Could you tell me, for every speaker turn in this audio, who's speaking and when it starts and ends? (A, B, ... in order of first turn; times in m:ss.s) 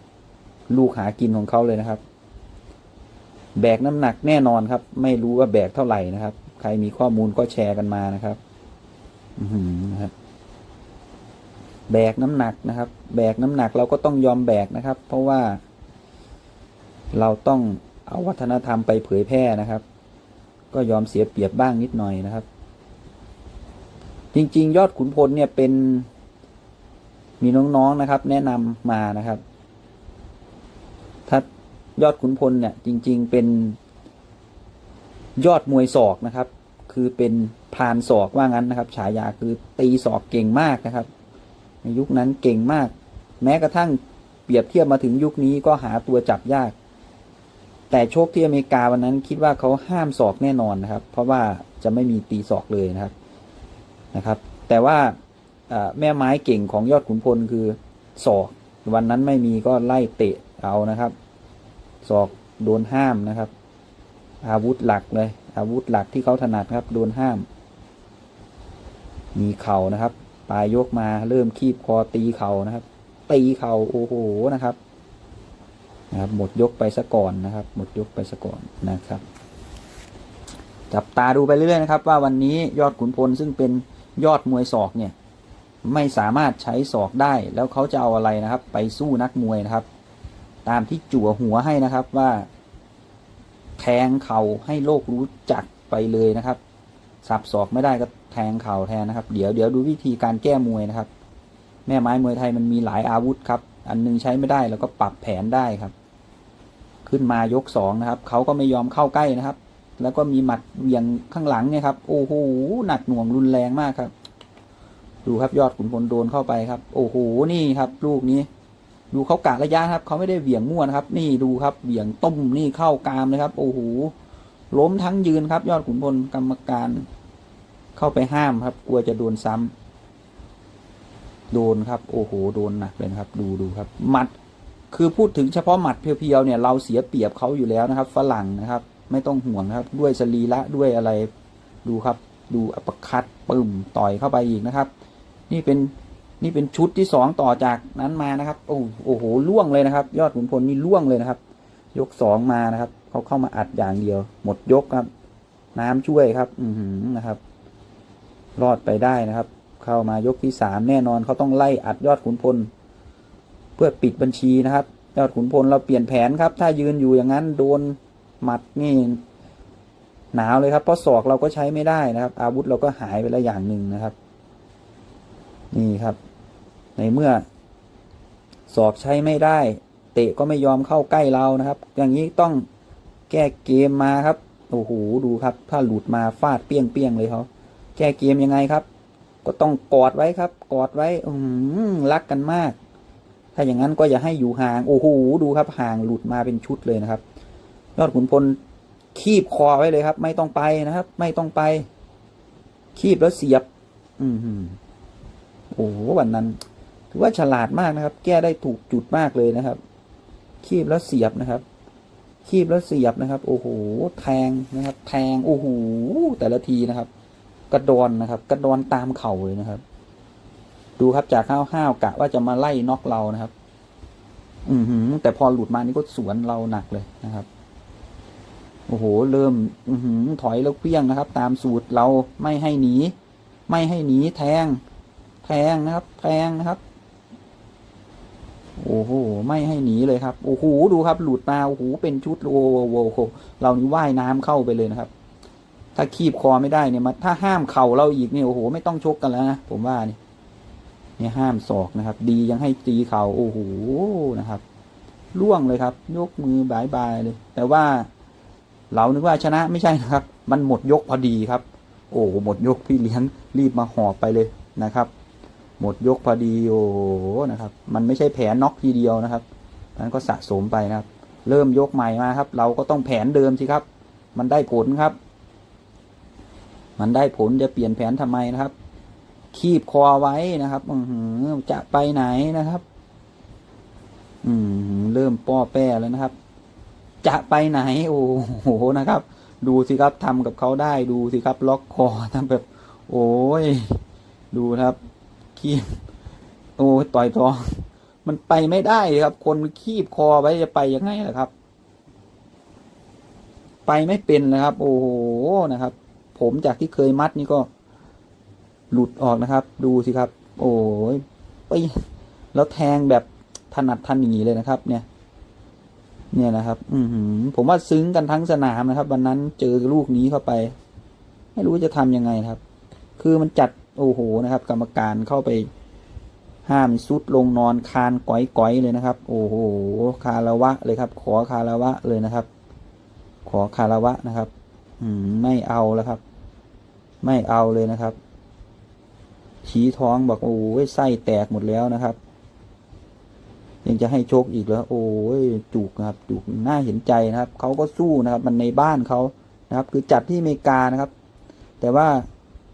0:00.7-0:02.0 A
0:03.6-0:08.4 A
0:09.4-0:10.1 A
0:11.9-0:15.6 A
0:17.1-0:19.8 A
0:20.7-0:22.5 A
0:24.3-0:26.1 A
0:27.4-0:29.4 A
0:32.0-0:33.8 A
0:35.4-0:41.1 A
0:41.8-0:46.8 A
0:47.9-0:53.1 A
0:54.1-0:55.2 A
0:55.7-1:01.2 A
1:02.0-1:03.5 A
1:04.4-1:07.5 A
1:09.4-1:14.8 A
1:16.1-1:19.2 A
1:20.9-1:25.2 A
1:25.8-1:29.9 A
1:30.6-1:32.5 A
1:33.8-1:36.6 A
1:37.2-1:41.1 A
1:41.9-1:45.9 A
1:47.1-1:54.1 A
1:55.2-1:58.5 A
1:59.1-2:04.1 A
2:04.7-2:07.1 A
2:08.0-2:09.7 A
2:11.5-2:14.3 A
2:14.9-2:21.3 A
2:21.8-2:24.9 A
2:25.5-2:31.4 A
2:31.9-2:35.1 A
2:35.8-2:37.4 A
2:38.6-2:42.7 A
2:43.8-2:49.2 A
2:50.3-2:54.2 A
2:55.7-2:56.2 A
2:57.0-2:57.5 A
2:58.7-3:02.7 A
3:03.3-3:08.9 A
3:09.4-3:12.8 A
3:13.6-3:17.2 A
3:18.0-3:18.6 A
3:19.1-3:21.9 A
3:23.0-3:23.7 A
3:24.2-3:24.8 A
3:25.7-3:26.6 A
3:27.1-3:29.8 A
3:30.6-3:31.6 A
3:32.4-3:37.1 A
3:37.7-3:39.8 A
3:41.0-3:43.5 A
3:44.7-3:47.5 A
3:48.9-3:53.2 A
3:53.7-3:54.8 A
3:55.4-3:56.8 A
3:58.8-4:05.1 A
4:06.0-4:10.2 A
4:11.2-4:14.6 A
4:15.3-4:18.1 A
4:18.9-4:25.1 A
4:25.8-4:29.4 A
4:30.0-4:35.2 A
4:37.0-4:38.7 A
4:39.5-4:42.8 A
4:44.4-4:46.4 A
4:47.2-4:54.0 A
4:54.5-4:55.0 A
4:55.6-4:56.0 A
4:56.8-5:01.5 A
5:03.9-5:07.7 A
5:08.9-5:12.0 A
5:12.5-5:15.1 A
5:16.3-5:20.8 A
5:21.6-5:22.6 A
5:23.2-5:25.7 A
5:26.6-5:32.5 A
5:33.5-5:36.2 A
5:37.2-5:38.2 A
5:39.6-5:42.2 A
5:43.8-5:51.1 A
5:51.8-5:52.3 A